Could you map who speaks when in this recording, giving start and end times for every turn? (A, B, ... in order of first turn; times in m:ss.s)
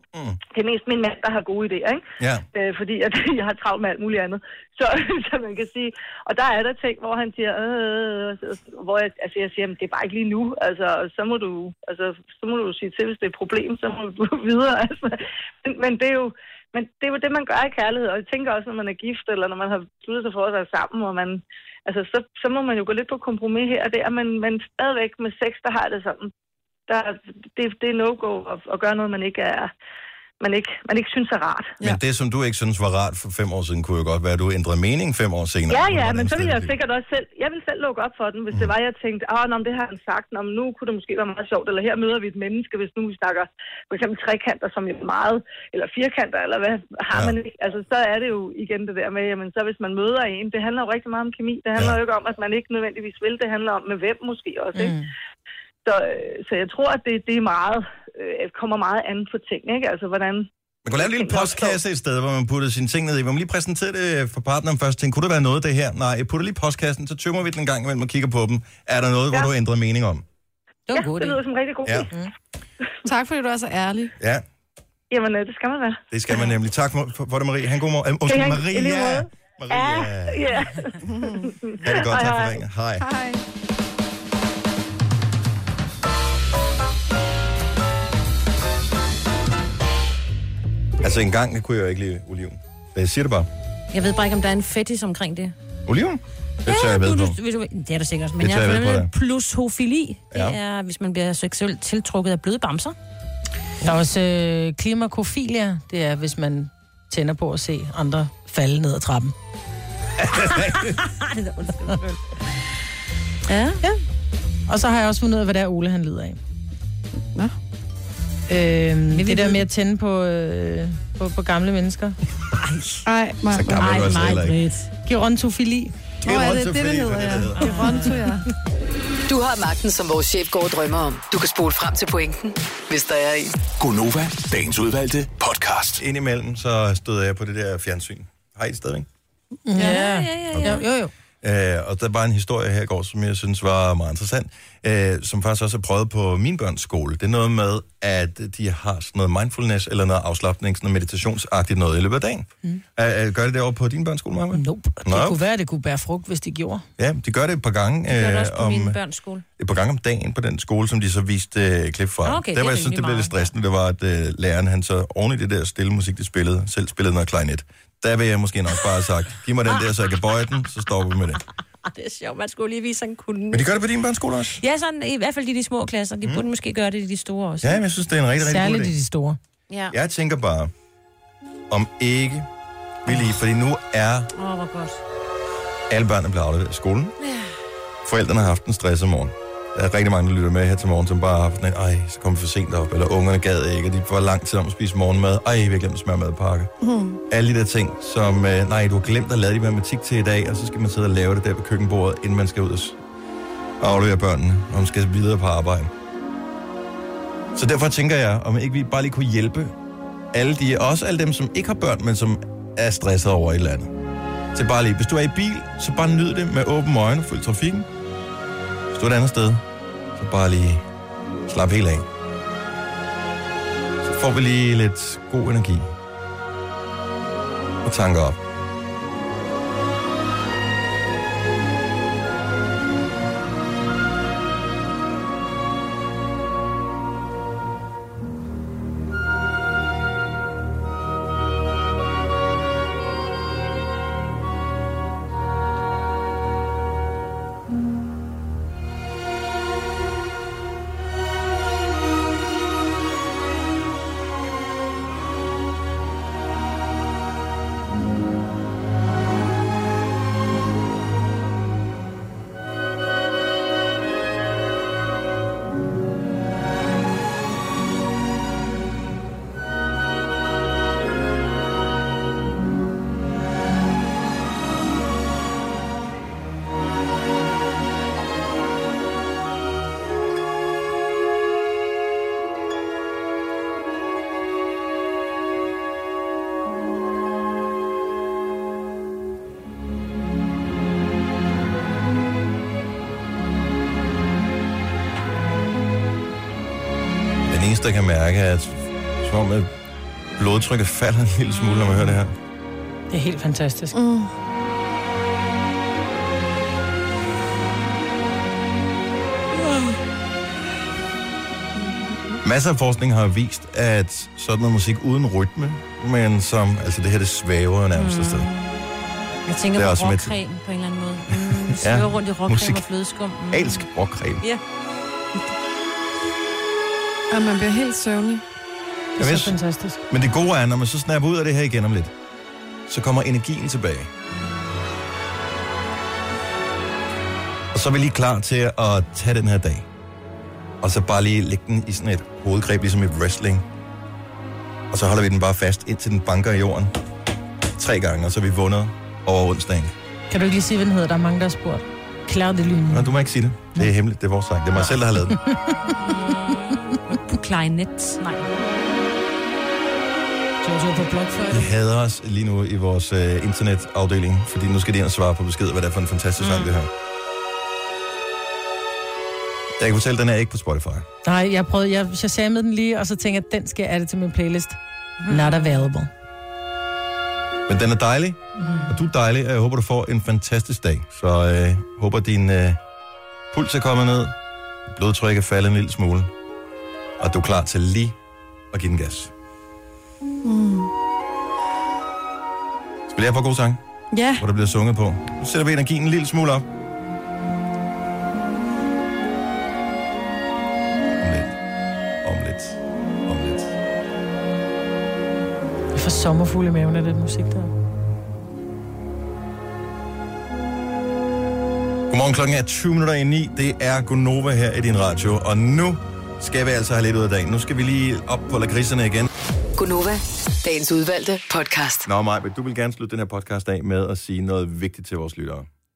0:00.5-0:26.3 A
0:02.2-0:02.4 B
0:26.9-0:29.7 A
0:30.4-0:31.7 A
0:31.8-0:36.7 B
0:35.7-0:55.0 A
0:54.8-0:55.1 C
0:55.8-1:01.8 A
1:00.8-1:10.2 B
1:10.9-1:11.4 C
1:10.9-1:12.1 A
1:13.0-1:14.1 D
1:14.2-1:14.4 B
1:15.1-1:16.0 A
1:16.1-1:20.4 B
1:18.2-1:22.6 A
1:21.0-1:21.5 D
1:21.8-1:23.0 B
1:23.0-1:23.4 D
1:31.0-1:33.5 B
1:33.9-1:35.5 E
1:35.9-1:37.4 B
1:36.6-1:42.9 E
1:38.4-1:39.1 B
1:40.3-1:40.6 B
1:43.8-1:49.3 C
1:50.2-1:50.9 B
1:50.9-1:52.2 E
1:53.5-1:53.8 E
1:54.7-1:56.4 C
1:58.5-2:02.2 C
1:59.1-1:59.6 E
2:02.6-2:03.0 E
2:03.0-2:04.0 D
2:03.5-2:04.6 B
2:03.8-2:04.9 E
2:05.0-2:05.9 C
2:06.2-2:07.8 B
2:06.2-2:08.4 D
2:07.6-2:08.1 E
2:09.3-2:13.6 F
2:13.7-2:16.0 G
2:16.0-2:19.1 B
2:19.7-2:21.1 C
2:19.7-2:20.8 E
2:20.5-2:20.8 B
2:21.4-2:35.4 B
2:34.5-2:36.8 C
2:37.0-2:39.0 B
2:38.1-2:39.4 E
2:39.6-2:51.4 B
2:42.2-2:43.4 E
2:51.9-2:53.7 E
2:53.5-2:54.6 B
2:54.6-2:57.8 E
2:57.6-2:58.9 B
2:58.4-2:59.4 C
2:59.9-3:00.7 B
3:01.7-3:02.5 B
3:03.0-3:04.3 B
3:04.3-3:05.0 E
3:05.9-3:07.2 B
3:08.0-3:16.7 B
3:16.8-3:17.2 D
3:17.3-3:23.0 B
3:23.8-3:25.9 B
3:27.5-3:29.7 B
3:30.3-3:33.9 B
3:34.5-3:37.9 B
3:38.9-3:39.6 B
3:40.2-3:40.8 B
3:41.5-3:42.0 B
3:44.0-3:45.9 B
3:47.8-3:48.4 B
4:57.5-4:59.7 B
5:00.4-5:02.3 B
5:03.1-5:04.0 C
5:03.9-5:04.3 D
5:12.4-5:18.5 B
5:17.9-5:18.7 E
5:19.5-5:23.9 E
5:19.7-5:20.3 B
5:21.5-5:22.8 B
5:23.5-5:24.4 B
5:27.3-5:28.4 D
5:29.2-5:29.6 B
5:29.2-5:30.0 C
5:30.1-5:32.1 B
5:32.9-5:34.1 B
5:37.7-5:39.9 B
5:40.8-5:43.6 B
5:44.9-5:46.9 B
5:47.8-5:49.9 B
5:50.3-5:53.1 C
5:52.9-5:55.4 B
5:54.8-5:55.8 C
5:57.2-5:58.5 E
6:00.6-6:01.7 C
6:01.5-6:06.9 B
6:06.4-6:06.7 E
6:09.8-6:11.1 B
6:11.2-6:16.1 C
6:15.2-6:15.9 E
6:17.7-6:22.8 B
6:23.5-6:24.3 B
6:24.9-6:26.3 B
6:27.2-6:28.2 B
6:28.7-6:29.3 B
6:30.4-6:30.9 D
6:33.1-6:33.8 B
6:34.1-6:34.4 D
6:34.4-6:36.6 B
6:41.2-6:41.6 B
6:42.2-6:43.8 B
6:45.9-6:47.7 C
6:52.1-6:59.3 B
6:59.8-7:02.0 F
7:02.0-7:05.7 B